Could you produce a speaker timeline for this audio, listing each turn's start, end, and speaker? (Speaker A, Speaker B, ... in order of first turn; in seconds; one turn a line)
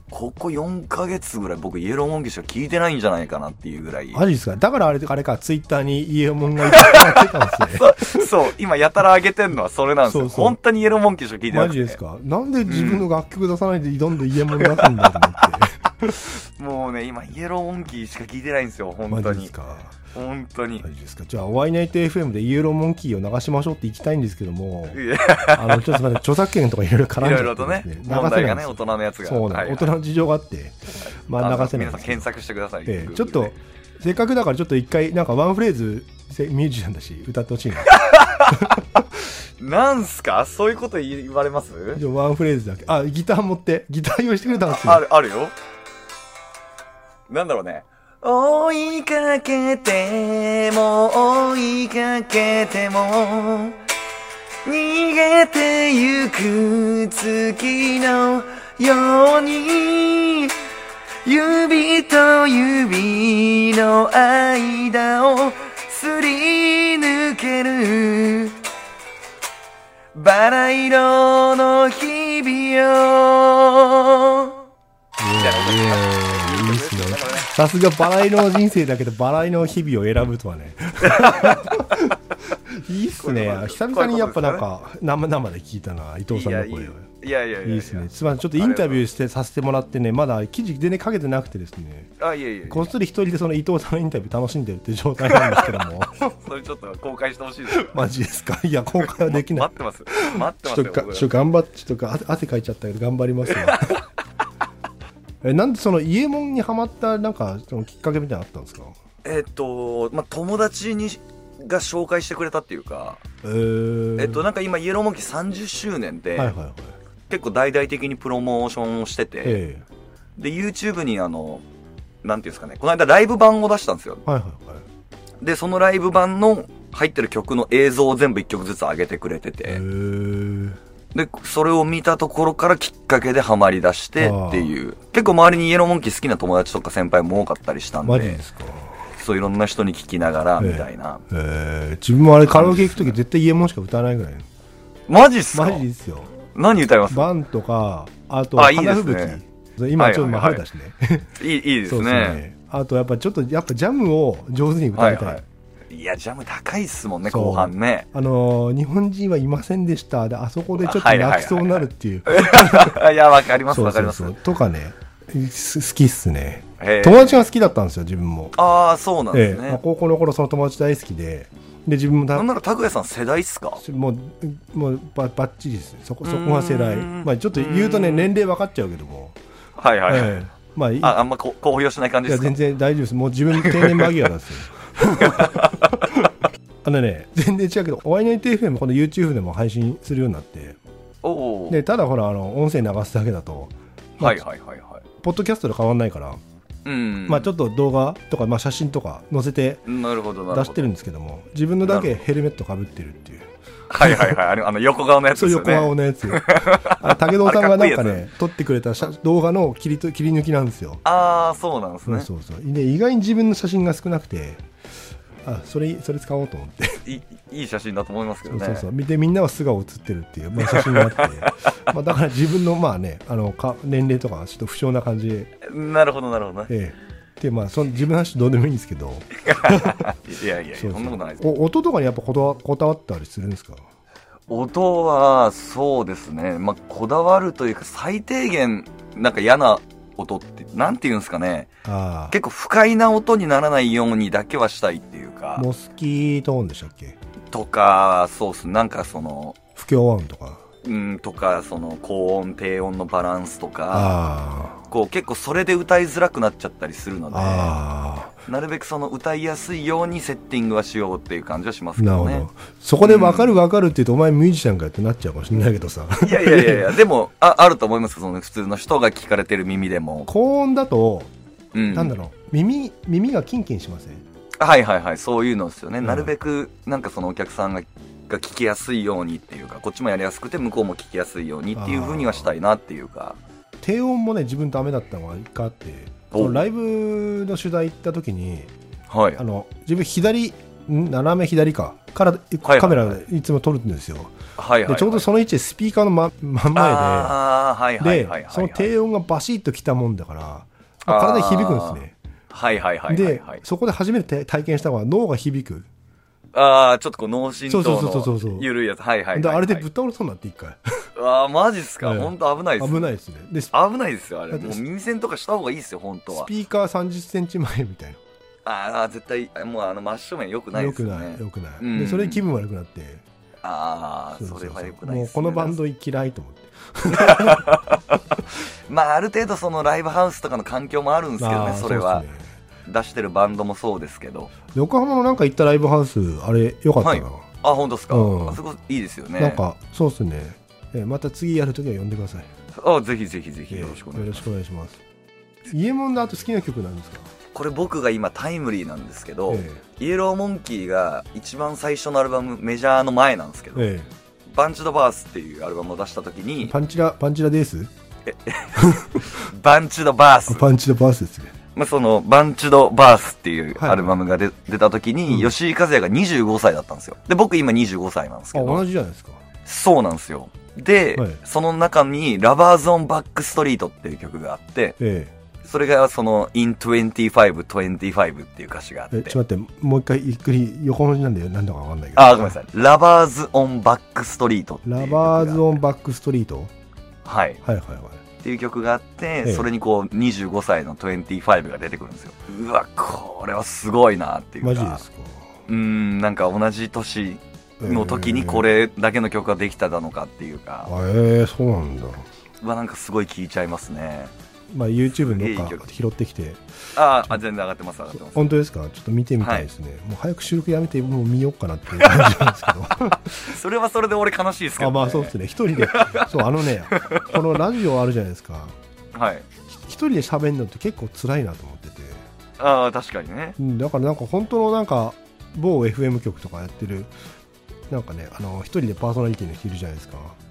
Speaker A: 0.1-4.2
Speaker B: 4.1-8.2
Speaker A: 6.7-12.0
Speaker B: 10.1-10.6
Speaker B: 11.5-16.3
Speaker A: 12.7-13.1
Speaker A: 14.6-15.4
Speaker A: 16.2-19.5
Speaker B: 19.1-20.0
Speaker A: 20.1-20.8
Speaker B: 20.8-25.0
Speaker A: 24.9-26.1
Speaker B: 25.5-32.3
Speaker A: 27.2-29.9
Speaker A: 31.1-33.5
Speaker B: 32.9-38.0
Speaker A: 37.9-38.8
Speaker B: 38.5-39.1
Speaker A: 39.6-42.0
Speaker B: 41.9-45.0
Speaker A: 44.7-45.5
Speaker A: 47.3-53.8
Speaker A: 54.6-60.5
Speaker A: 61.2-68.6
Speaker A: 70.1-74.6
Speaker B: 75.2-87.1
Speaker A: 75.3-77.5
Speaker A: 81.0-82.1
Speaker A: 83.2-84.6
Speaker A: 86.3-89.0
Speaker B: 87.6-92.1
Speaker A: 92.2-92.9
Speaker B: 92.7-96.3
Speaker A: 95.3-98.1
Speaker B: 97.7-104.0
Speaker A: 99.1-101.3
Speaker A: 103.5-104.0
Speaker B: 105.4-109.0
Speaker A: 109.2-113.2
Speaker B: 113.4-114.4
Speaker A: 114.2-116.5
Speaker B: 116.4-117.0
Speaker A: 117.3-119.6
Speaker B: 119.4-119.8
Speaker A: 120.4-121.6
Speaker A: 122.2-124.2
Speaker B: 124.2-124.8
Speaker A: 125.4-129.8
Speaker B: 129.7-130.8
Speaker A: 131.1-138.4
Speaker B: 134.2-134.7
Speaker B: 138.1-139.0
Speaker A: 139.1-141.2
Speaker B: 140.6-144.5
Speaker A: 142.5-143.2
Speaker A: 145.1-145.9
Speaker B: 145.5-146.4
Speaker A: 146.6-147.3
Speaker B: 147.1-151.3
Speaker A: 148.6-149.4
Speaker A: 150.0-150.6
Speaker A: 151.4-152.4
Speaker B: 151.9-155.4
Speaker A: 154.9-158.1
Speaker B: 157.2-163.0
Speaker A: 160.8-164.3
Speaker B: 163.6-168.6
Speaker A: 166.8-167.5
Speaker A: 168.5-169.8
Speaker B: 169.3-172.5
Speaker A: 172.3-173.8
Speaker B: 173.8-179.4
Speaker A: 176.2-178.3
Speaker A: 179.8-180.4
Speaker B: 180.1-181.2
Speaker A: 181.0-182.6
Speaker B: 182.2-186.3
Speaker A: 183.6-184.1
Speaker A: 185.2-186.0
Speaker B: 186.8-190.8
Speaker A: 191.2-191.8
Speaker B: 191.7-194.4
Speaker A: 194.2-195.0
Speaker B: 195.2-196.4
Speaker A: 196.8-197.5
Speaker B: 197.3-199.9
Speaker A: 199.9-200.9
Speaker B: 200.5-204.4
Speaker A: 201.8-202.2
Speaker A: 203.9-208.3
Speaker B: 205.3-211.0
Speaker A: 211.1-212.3
Speaker B: 212.1-214.6
Speaker B: 215.4-217.1
Speaker A: 217.1-218.9
Speaker B: 218.5-225.5
Speaker A: 220.6-221.8
Speaker A: 225.6-226.7
Speaker B: 226.7-230.1
Speaker A: 229.4-231.5
Speaker B: 230.8-233.8
Speaker A: 234.5-241.7
Speaker B: 241.8-242.3
Speaker A: 242.3-245.7
Speaker B: 245.6-247.2
Speaker A: 247.5-249.6
Speaker B: 249.8-250.6
Speaker A: 250.8-254.2
Speaker B: 253.9-254.8
Speaker A: 254.9-257.8
Speaker B: 257.3-258.4
Speaker A: 258.5-262.5
Speaker B: 262.0-267.0
Speaker A: 263.0-263.6
Speaker A: 266.2-270.3
Speaker B: 270.3-271.3
Speaker A: 271.7-272.1
Speaker B: 271.9-274.2
Speaker A: 274.6-283.4
Speaker B: 276.0-276.3
Speaker B: 281.8-282.5
Speaker B: 283.8-288.7
Speaker A: 286.3-286.6
Speaker A: 289.1-289.4
Speaker B: 289.4-297.4
Speaker A: 292.6-293.2
Speaker A: 294.6-295.3
Speaker A: 296.7-298.9
Speaker B: 298.0-302.1
Speaker A: 301.1-303.6
Speaker B: 303.1-305.9
Speaker A: 306.5-309.9
Speaker B: 307.7-308.7
Speaker B: 309.3-310.8
Speaker A: 311.1-313.1
Speaker B: 312.0-313.7
Speaker A: 313.7-316.5
Speaker B: 314.5-314.8
Speaker B: 316.3-318.2
Speaker A: 318.6-322.4
Speaker B: 320.7-323.2
Speaker A: 323.6-325.8
Speaker B: 324.4-327.7
Speaker A: 327.1-332.2
Speaker B: 331.4-332.5
Speaker A: 332.9-334.5
Speaker B: 334.7-337.5
Speaker A: 337.0-339.6
Speaker B: 338.1-338.6
Speaker B: 339.4-342.5
Speaker A: 342.8-344.4
Speaker B: 343.7-345.0
Speaker B: 345.7-347.3
Speaker A: 347.5-353.9
Speaker B: 349.5-349.8
Speaker B: 353.8-354.1
Speaker A: 354.5-356.8
Speaker B: 356.6-357.9
Speaker A: 358.2-360.7
Speaker B: 358.8-359.5
Speaker B: 360.5-361.5
Speaker A: 361.8-368.8
Speaker B: 363.8-364.1
Speaker B: 368.5-369.4
Speaker A: 369.6-375.0
Speaker B: 375.0-375.3
Speaker A: 375.6-379.4
Speaker B: 379.1-382.5
Speaker A: 382.1-385.8
Speaker B: 384.9-386.7
Speaker A: 387.2-387.6
Speaker B: 387.6-388.2
Speaker A: 388.4-395.0
Speaker B: 394.6-395.5
Speaker A: 395.7-400.9
Speaker B: 397.8-398.7
Speaker B: 400.9-402.2
Speaker A: 402.6-404.3
Speaker B: 404.7-407.4
Speaker A: 405.2-405.8
Speaker A: 407.0-408.5
Speaker B: 408.1-413.5
Speaker A: 409.4-409.7
Speaker A: 412.0-412.5
Speaker A: 413.2-417.4
Speaker B: 414.8-418.8
Speaker A: 419.1-419.5
Speaker B: 419.7-422.2
Speaker A: 422.6-423.6
Speaker B: 423.6-427.1
Speaker B: 427.9-430.4